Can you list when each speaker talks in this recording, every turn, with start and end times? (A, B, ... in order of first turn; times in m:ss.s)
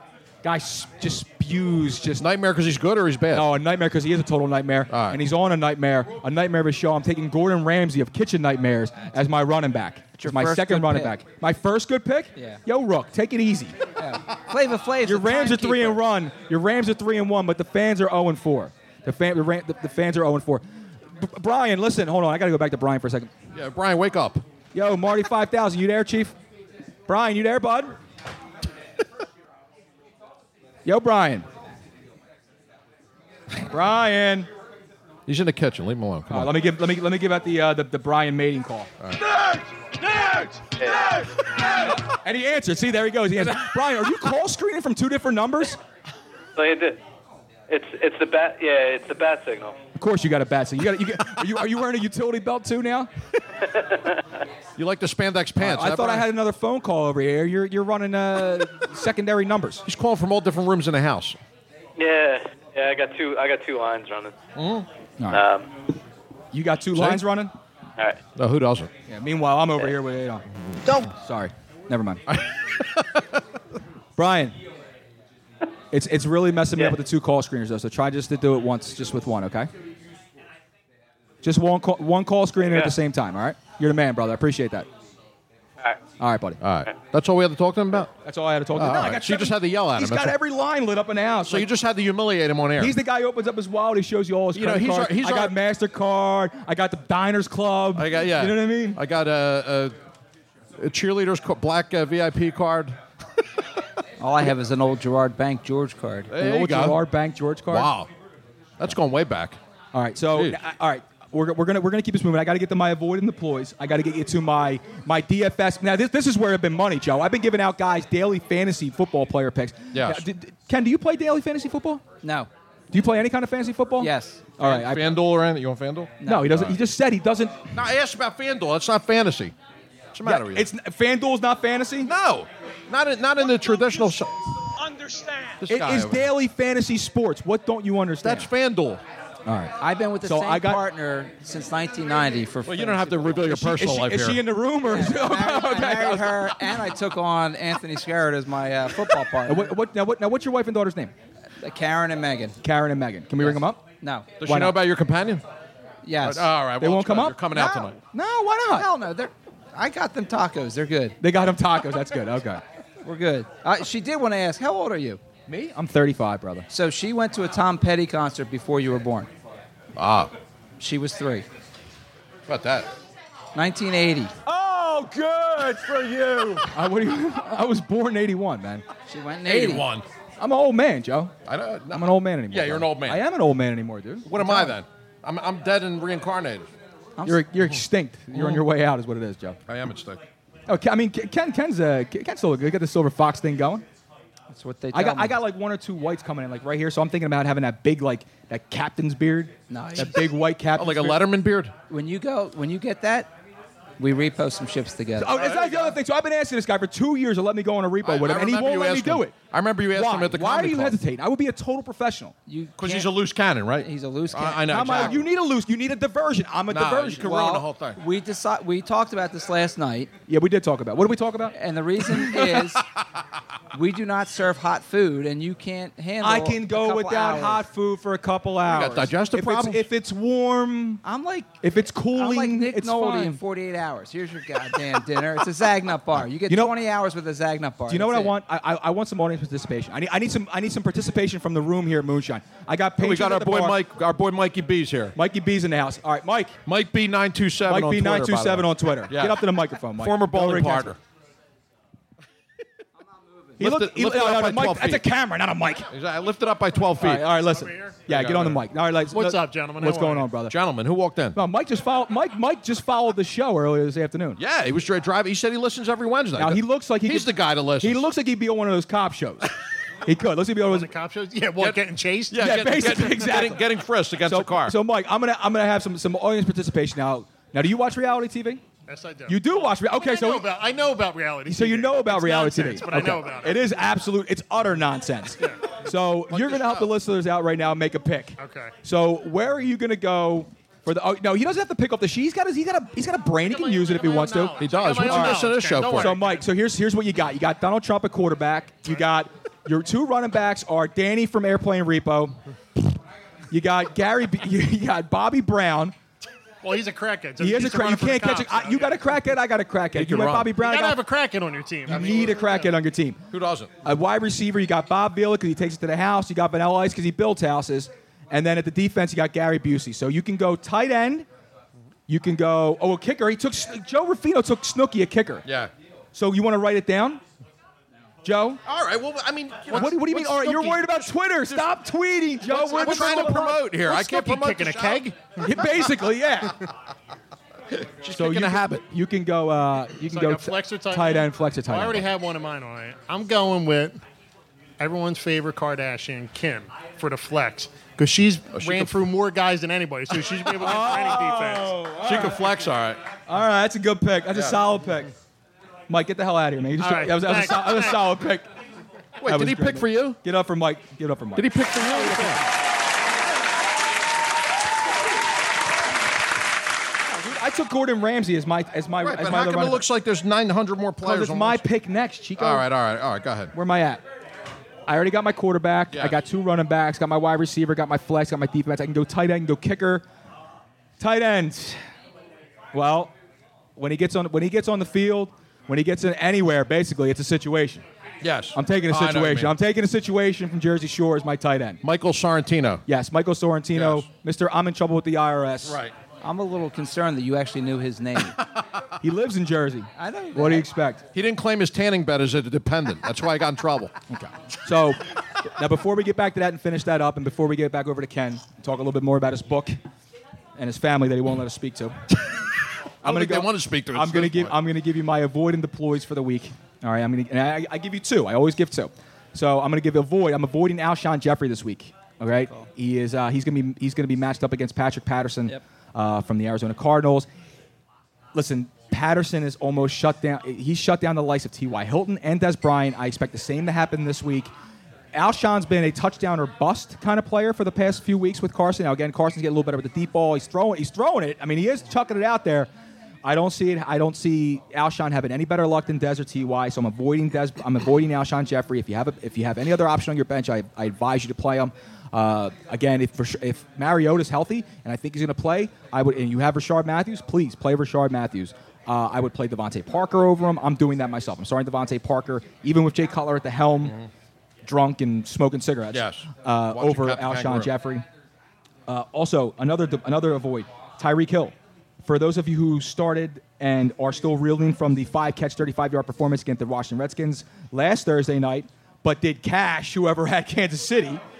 0:00.4-0:02.3 A
0:02.2-0:03.5 B
0:03.3-0:13.8 A
0:04.9-0:05.2 B
0:10.2-0:11.2 C
0:14.0-0:16.0 C
0:15.0-0:23.3 A
0:23.5-0:24.4 B
0:24.7-0:26.4 A
0:27.1-0:27.9 A
0:30.8-0:31.4 A
0:33.6-0:34.5 A
0:35.3-0:36.5 B
0:36.3-0:38.9 A
0:40.8-0:41.0 D
0:42.2-0:45.8 A
0:46.6-0:47.0 D
0:47.7-0:49.8 D
0:50.0-0:53.1 A
0:53.7-0:54.1 D
0:54.8-0:56.3 B
0:55.6-0:59.8 A
0:59.9-1:01.4 B
1:02.0-1:04.4 D
1:04.6-1:04.9 B
1:05.3-1:05.7 D
1:06.5-1:07.5 A
1:07.0-1:07.2 B
1:08.4-1:08.9 B
1:09.1-1:12.2 A
1:12.3-1:13.2 B
1:14.2-1:14.6 A
1:15.9-1:19.7 A
1:21.4-1:24.9 A
1:22.6-1:22.9 D
1:26.2-1:26.6 A
1:26.6-1:28.1 B
1:28.2-1:31.7 A
1:28.8-1:30.4 B
1:31.5-1:33.0 B
1:32.8-1:39.0 A
1:34.5-1:35.6 B
1:38.0-1:40.0 B
1:40.8-1:43.0 B
1:44.2-1:46.3 C
1:46.3-1:47.0 B
1:46.3-1:47.9 A
1:47.7-1:48.1 B
1:48.8-1:49.6 B
1:49.9-2:02.0 A
1:50.3-1:50.6 B
1:59.9-2:00.2 B
2:02.2-2:02.5 C
2:02.9-2:05.2 A
2:04.0-2:04.6 C
2:04.6-2:06.8 B
2:06.2-2:06.6 C
2:06.2-2:07.6 A
2:07.7-2:09.5 B
2:10.1-2:10.7 B
2:10.2-2:12.1 A
2:12.0-2:14.3 B
2:15.6-2:16.3 B
2:15.6-2:18.5 A
2:18.2-2:19.0 B
2:19.4-2:20.9 A
2:19.8-2:23.6 C
2:22.6-2:24.4 B
2:23.4-2:26.7 A
2:24.8-2:29.8 C
2:29.4-2:31.1 A
2:31.6-2:32.6 C
2:32.6-2:33.8 A
2:33.4-2:34.4 C
2:34.4-2:35.4 B
2:34.4-2:34.8 A
2:36.0-2:36.5 C
2:36.2-2:38.0 B
2:36.8-2:38.9 A
2:38.7-2:41.2 C
2:41.2-2:42.6 A
2:43.0-2:45.2 C
2:45.5-2:46.7 A
2:46.7-2:49.3 C
2:50.0-2:50.3 B
2:50.8-2:51.5 C
2:52.5-2:52.9 B
2:53.6-2:54.3 C
2:54.4-2:58.8 A
2:56.2-2:56.6 B
2:59.1-2:59.9 C
2:59.4-3:00.0 B
3:00.4-3:01.3 A
3:01.4-3:03.2 B
3:01.9-3:04.8 A
3:04.3-3:06.7 B
3:07.2-3:07.5 C
3:07.2-3:09.6 A
3:08.3-3:08.6 B
3:09.7-3:10.2 B
3:10.7-3:13.8 A
3:14.5-3:15.4 C
3:14.9-3:21.2 A
3:19.7-3:20.2 C
3:20.8-3:21.7 B
3:21.9-3:23.3 C
3:24.0-3:25.4 C
3:25.2-3:29.3 A
3:25.2-3:26.0 B
3:28.0-3:31.0 B
3:29.9-3:32.3 A
3:32.5-3:33.2 C
3:32.8-3:35.3 B
3:33.8-3:35.2 C
3:34.7-3:37.6 A
3:36.7-3:38.0 B
3:37.3-3:40.1 C
3:40.3-3:41.6 A
3:41.5-3:42.8 C
3:43.7-3:47.7 C
3:46.2-3:51.0 A
3:48.6-3:49.8 B
3:51.0-3:58.3 C
3:51.6-3:53.4 A
3:56.5-3:56.8 A
3:57.9-4:03.8 A
4:03.0-4:05.1 B
4:05.1-4:06.6 A
4:06.7-4:11.0 B
4:07.7-4:11.0 A
4:13.6-4:15.0 B
4:13.6-4:15.9 A
4:15.9-4:17.4 B
4:17.0-4:20.5 A
4:17.3-4:18.0 E
4:18.1-4:18.7 B
4:19.1-4:20.3 E
4:20.4-4:21.4 B
4:21.3-4:24.4 A
4:24.4-4:28.1 B
4:26.4-4:29.5 A
4:30.0-4:30.9 A
4:30.7-4:32.8 E
4:31.6-4:34.7 B
4:32.3-4:33.6 A
4:34.2-4:38.6 A
4:38.9-4:43.8 E
4:39.3-4:40.5 A
4:41.4-5:02.4 A
4:46.3-4:46.9 B
4:48.4-4:48.7 E
4:53.4-4:56.4 E
4:54.6-4:56.2 B
5:03.5-5:06.0 A
5:06.6-5:09.2 E
5:07.4-5:11.0 A
5:10.0-5:10.6 B
5:10.5-5:12.4 E
5:11.9-5:13.2 A
5:11.9-5:12.4 B
5:13.3-5:13.7 B
5:13.8-5:21.3 A
5:22.1-5:25.4 A
5:25.4-5:25.7 B
5:26.1-5:27.2 A
5:28.2-5:28.6 A
5:28.6-5:31.7 B
5:29.7-5:33.7 A
5:32.4-5:35.1 B
5:33.8-5:35.2 E
5:35.4-5:36.6 A
5:38.0-5:38.8 B
5:38.1-5:42.1 A
5:40.0-5:44.0 E
5:44.8-5:51.9 E
5:48.5-5:49.0 B
5:50.6-5:52.7 A
5:52.0-5:53.0 B
5:53.3-5:55.1 A
5:54.3-5:54.6 B
5:55.9-5:58.5 A
5:56.8-5:58.2 E
5:59.2-6:00.2 B
5:59.3-6:02.4 A
6:01.4-6:02.4 B
6:07.1-6:09.8 A
6:09.0-6:11.7 B
6:11.0-6:12.7 A
6:12.4-6:13.5 B
6:13.5-6:14.0 A
6:14.9-6:20.0 A
6:15.9-6:16.2 B
6:21.0-6:21.8 A
6:22.7-6:23.1 A
6:23.8-6:27.8 A
6:28.2-6:29.6 B
6:28.5-6:31.8 A
6:31.8-6:32.8 B
6:32.9-6:35.8 A
6:33.7-6:34.1 B
6:35.6-6:35.9 B
6:36.2-6:38.4 C
6:39.0-6:41.0 A
6:40.0-6:40.7 C
6:41.1-6:43.9 B
6:44.1-6:45.0 A
6:45.6-6:49.8 A
6:50.6-6:52.0 A
6:53.0-6:54.6 B
6:53.0-7:07.3 A
7:08.3-7:14.5 A
7:15.1-7:22.7 A
7:23.2-7:44.0 A
7:43.8-7:44.1 B
7:44.6-7:48.0 A
7:45.9-7:47.7 B
7:48.9-8:01.2 A